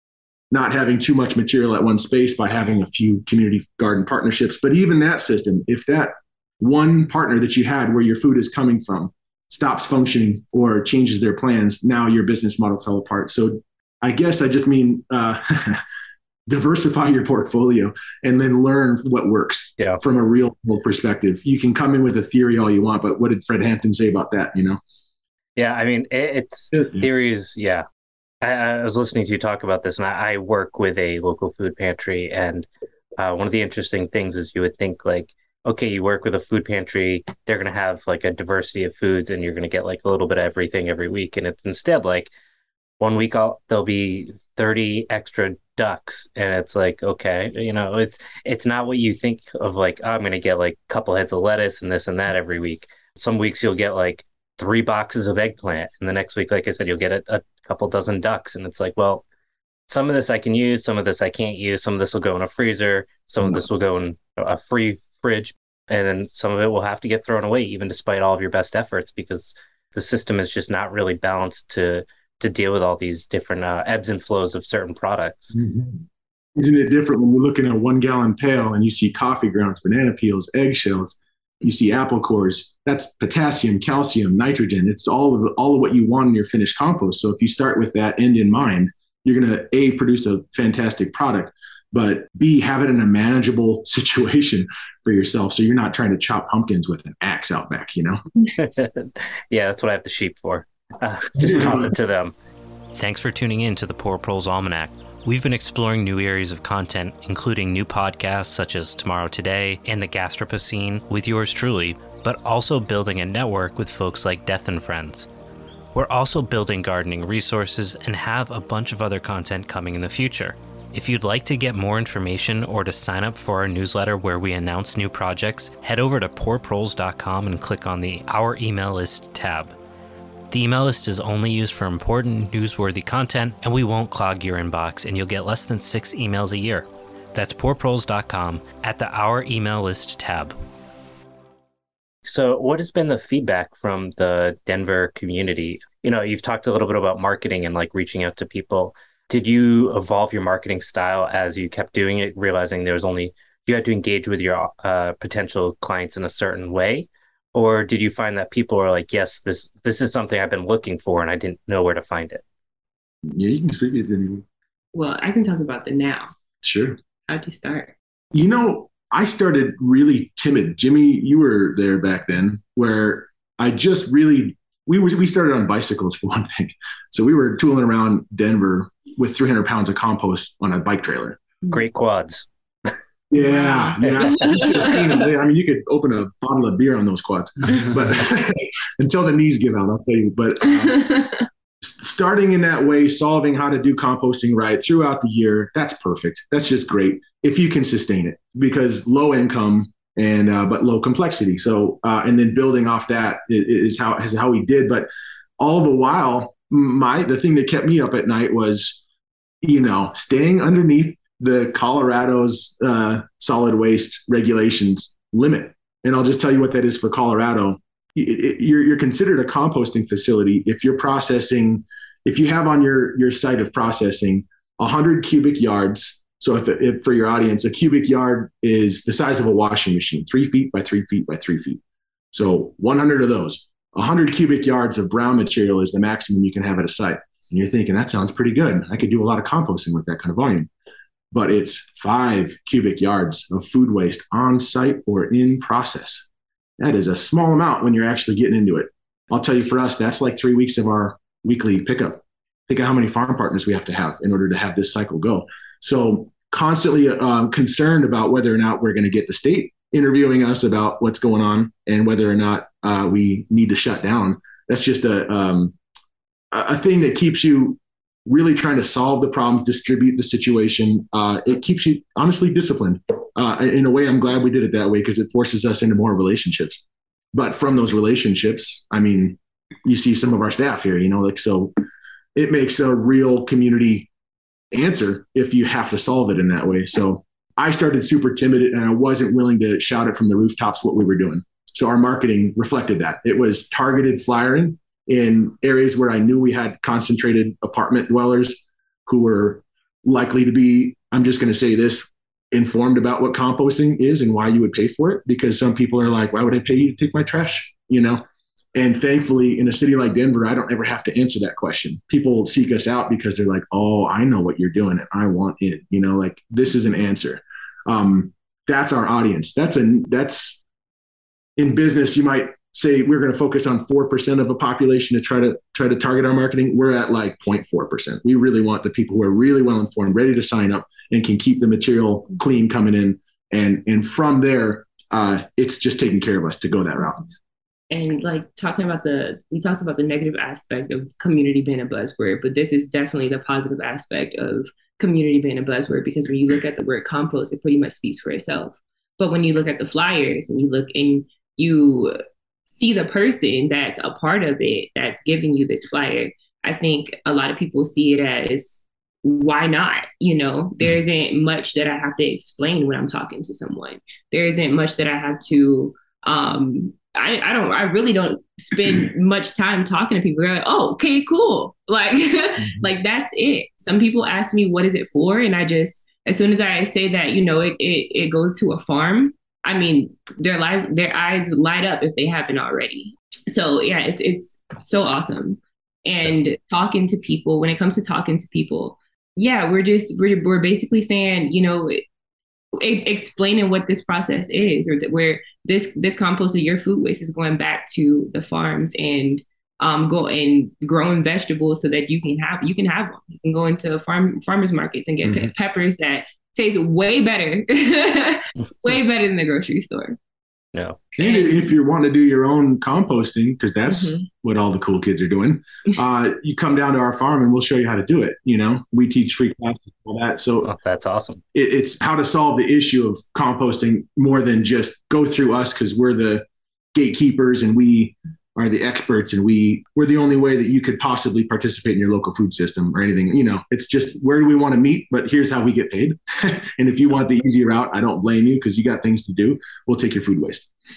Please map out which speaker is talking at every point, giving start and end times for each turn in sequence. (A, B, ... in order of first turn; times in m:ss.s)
0:00.5-0:15.8 A
0:16.5-0:24.8 A
0:25.6-0:27.8 B
0:28.4-0:42.3 B
0:43.0-0:59.2 B
0:59.9-1:15.6 B
1:15.6-1:16.0 A
1:16.6-1:38.2 A
1:38.6-1:42.4 B
1:41.4-1:41.9 A
1:42.9-1:55.3 B
1:55.9-2:09.8 B
2:10.5-2:20.6 B
2:22.2-2:42.4 B
2:43.3-2:44.4 A
2:44.9-2:46.3 C
2:46.6-2:47.0 A
2:47.3-2:47.9 C
2:48.3-3:01.4 A
3:01.7-3:02.5 B
3:03.3-3:11.1 A
3:03.8-3:05.0 C
3:04.0-3:04.7 B
3:10.8-3:11.3 C
3:11.8-3:25.1 A
3:25.6-3:29.0 A
3:29.6-3:51.8 A
3:52.3-4:00.7 A
4:01.3-4:06.3 A
4:06.8-4:25.8 A
4:26.5-4:41.7 A
4:42.4-4:44.1 A
4:44.7-5:08.2 A
5:08.8-5:20.6 A
5:21.6-5:37.3 A
5:37.9-5:52.2 C
5:52.7-6:32.0 C
6:32.8-6:50.2 C
6:50.7-6:51.0 B
6:51.2-7:00.7 A
6:51.2-6:51.6 C
6:53.9-6:54.2 C
7:00.6-7:01.4 B
7:01.5-7:20.7 A